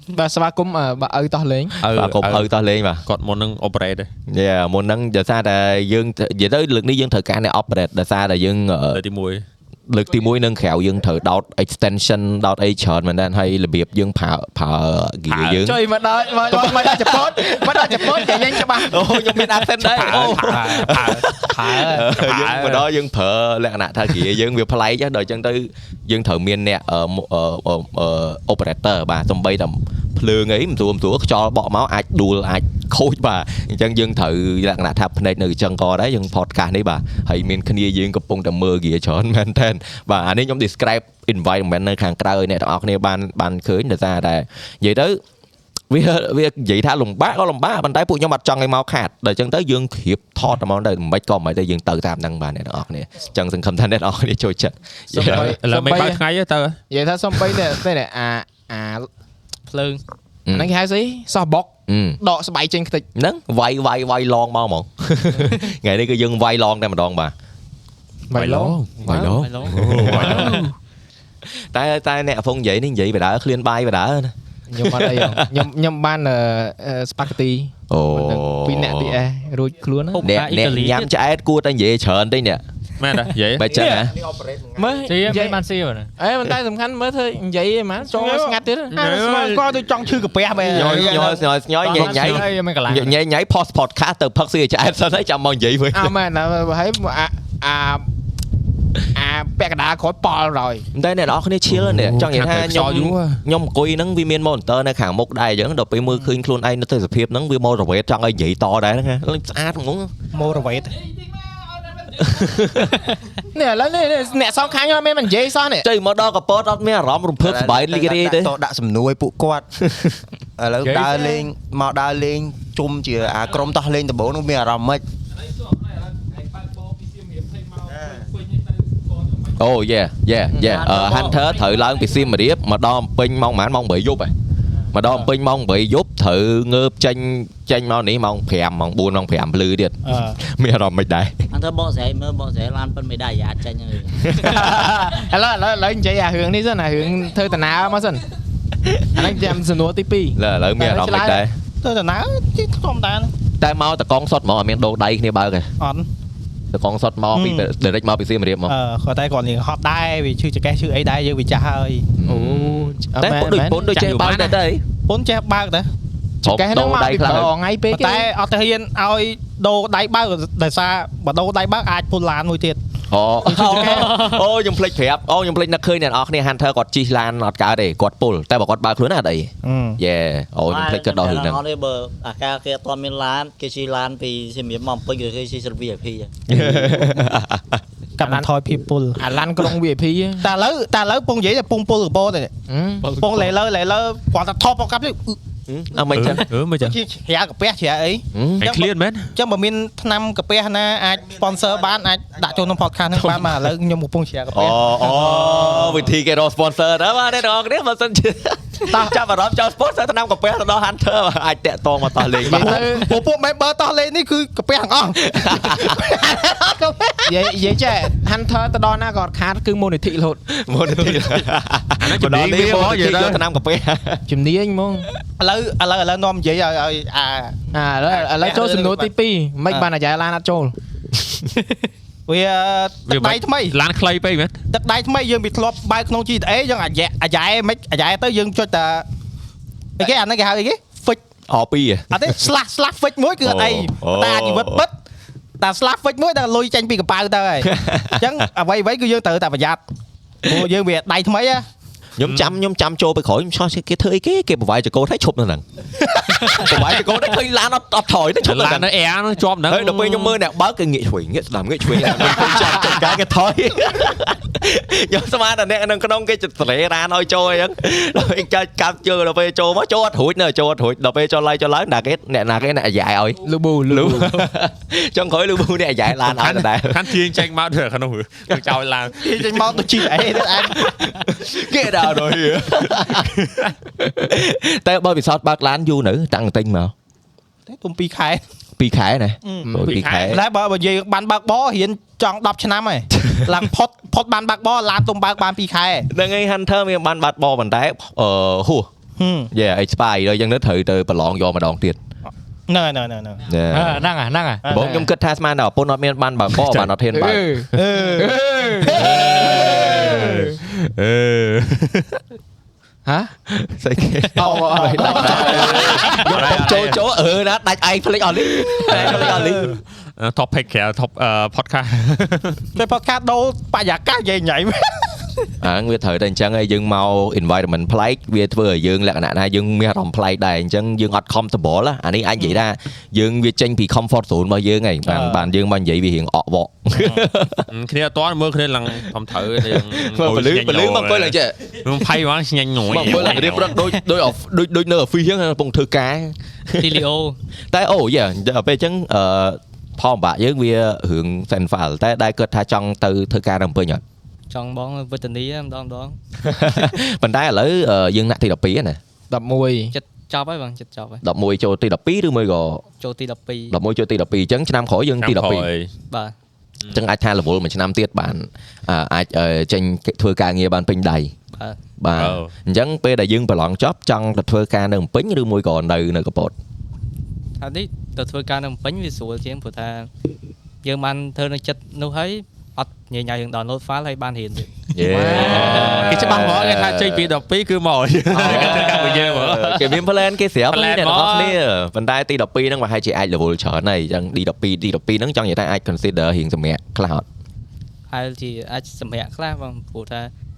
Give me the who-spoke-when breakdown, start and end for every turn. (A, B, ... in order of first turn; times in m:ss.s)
0:00.1-0:01.8 A
0:01.8-0:02.5 B
0:01.9-0:03.0 C
0:03.1-0:04.1 B
0:04.3-0:09.0 C
0:08.9-0:09.4 B
0:09.9-0:15.8 C
0:15.3-0:15.6 B
0:15.6-0:19.5 A
0:16.5-0:45.2 C
0:19.8-0:22.9 B
0:45.9-0:55.5 C
0:55.1-0:56.2 A
0:55.2-0:56.8 B
0:56.9-0:59.1 A
0:59.7-1:00.0 D
1:00.5-1:03.0 A
1:01.9-1:02.2 C
1:03.2-1:07.3 C
1:08.3-1:10.7 A
1:08.3-1:10.6 C
1:09.3-1:09.8 D
1:09.7-1:10.7 B
1:11.4-1:15.6 C
1:14.7-1:20.3 A
1:17.9-1:19.2 C
1:20.1-1:21.1 D
1:20.2-1:22.6 C
1:23.0-1:23.8 B
1:23.6-1:24.2 C
1:23.8-1:24.1 A
1:24.8-1:25.6 A
1:25.1-1:26.1 E
1:26.2-1:29.3 A
1:28.1-1:31.3 F
1:28.9-1:29.6 B
1:30.6-1:36.1 C
1:31.8-1:33.1 E
1:32.0-1:32.4 B
1:35.9-1:38.1 A
1:39.1-1:40.9 A
1:40.9-1:50.1 C
1:41.7-1:43.4 B
1:50.3-1:51.0 F
1:52.2-1:53.0 C
1:53.5-1:55.9 A
1:55.8-1:58.5 C
1:57.4-1:59.6 G
1:59.8-2:00.2 C
2:00.6-2:05.0 G
2:09.6-2:14.3 C
2:10.6-2:10.9 A
2:10.6-2:11.4 H
2:14.9-2:21.4 C
2:20.0-2:20.4 F
2:21.5-2:24.3 H
2:24.3-2:24.8 C
2:24.4-2:28.2 A
2:28.9-2:29.2 C
2:29.1-2:31.4 A
2:30.4-2:31.6 C
2:31.8-2:33.3 F
2:33.6-2:35.7 C
2:35.8-2:36.1 F
2:36.7-2:38.7 C
2:37.3-2:37.7 F
2:38.7-2:42.1 F
2:42.2-2:44.8 C
2:42.2-2:44.6 A
2:45.0-2:45.9 F
2:46.4-2:48.3 A
2:46.4-2:47.5 C
2:47.9-2:52.8 F
2:53.1-3:01.6 C
2:53.4-2:54.2 F
2:53.5-2:54.0 A
2:53.8-2:54.4 D
2:59.6-3:00.0 F
3:00.7-3:06.3 H
3:06.5-3:07.8 C
3:08.2-3:09.2 F
3:08.2-3:08.5 A
3:09.2-3:10.5 A
3:10.4-3:12.5 F
3:12.7-3:13.1 A
3:13.1-3:15.4 F
3:15.7-3:16.4 C
3:16.1-3:17.0 B
3:16.8-3:26.1 F
3:18.3-3:18.6 C
3:18.6-3:19.3 B
3:24.5-3:32.8 C
3:28.9-3:29.2 A
3:32.4-3:37.3 F
3:32.4-3:33.2 A
3:35.2-3:36.1 C
3:37.3-3:40.4 A
3:40.5-3:44.2 C
3:42.0-3:43.4 B
3:44.3-3:45.1 A
3:45.4-3:49.1 F
3:47.7-3:50.8 A
3:52.3-3:53.8 F
3:53.1-3:54.6 B
3:54.7-3:59.1 F
4:00.0-4:01.2 F
4:01.5-4:02.1 C
4:02.1-4:04.9 F
4:03.4-4:04.8 C
4:05.6-4:09.8 F
4:07.6-4:08.4 C
4:10.4-4:11.6 F
4:12.2-4:15.6 C
4:12.2-4:12.6 B
4:16.3-4:18.9 C
4:18.4-4:20.4 B
4:19.7-4:37.3 C
4:33.4-4:34.5 A
4:36.2-4:39.8 B
4:39.2-4:40.8 F
4:40.2-4:46.9 C
4:47.7-4:48.4 F
4:48.8-4:50.4 C
4:49.4-4:56.1 F
4:49.8-4:50.4 B
4:56.1-4:58.9 C
4:59.2-4:59.5 F
4:59.5-5:02.0 C
5:02.3-5:03.4 F
5:03.5-5:04.1 C
5:03.7-5:04.6 E
5:04.7-5:07.9 C
5:04.7-5:05.1 A
5:06.5-5:06.9 B
5:07.1-5:10.6 A
5:07.7-5:08.4 F
5:08.9-5:10.6 C
5:09.1-5:12.2 B
5:13.0-5:13.3 A
5:13.5-5:19.8 C
5:14.4-5:16.3 A
5:14.4-5:16.2 F
5:15.7-5:17.0 B
5:18.9-5:19.6 F
5:19.0-5:19.3 B
5:20.2-5:22.6 B
5:22.8-5:25.2 F
5:25.6-5:37.6 C
5:35.0-5:35.5 F
5:36.9-5:37.2 F
5:37.7-5:43.8 B
5:39.6-5:41.6 C
5:42.9-5:47.0 C
5:43.0-5:43.9 D
5:46.8-5:47.4 D
5:47.7-5:54.0 C
5:54.5-5:56.2 D
5:56.4-5:59.0 C
5:59.3-5:59.9 A
5:59.9-6:01.2 D
6:01.2-6:02.8 C
6:03.0-6:03.8 D
6:03.7-6:05.7 C
6:05.2-6:05.9 B
6:06.9-6:11.3 C
6:12.0-6:16.5 C
6:12.1-6:12.5 B
6:17.6-6:20.1 D
6:20.8-6:24.8 D
6:24.9-6:27.3 C
6:25.0-6:26.0 A
6:25.2-6:30.0 B
6:28.3-6:37.2 C
6:30.7-6:31.5 B
6:30.8-6:31.4 D
6:38.1-6:40.3 D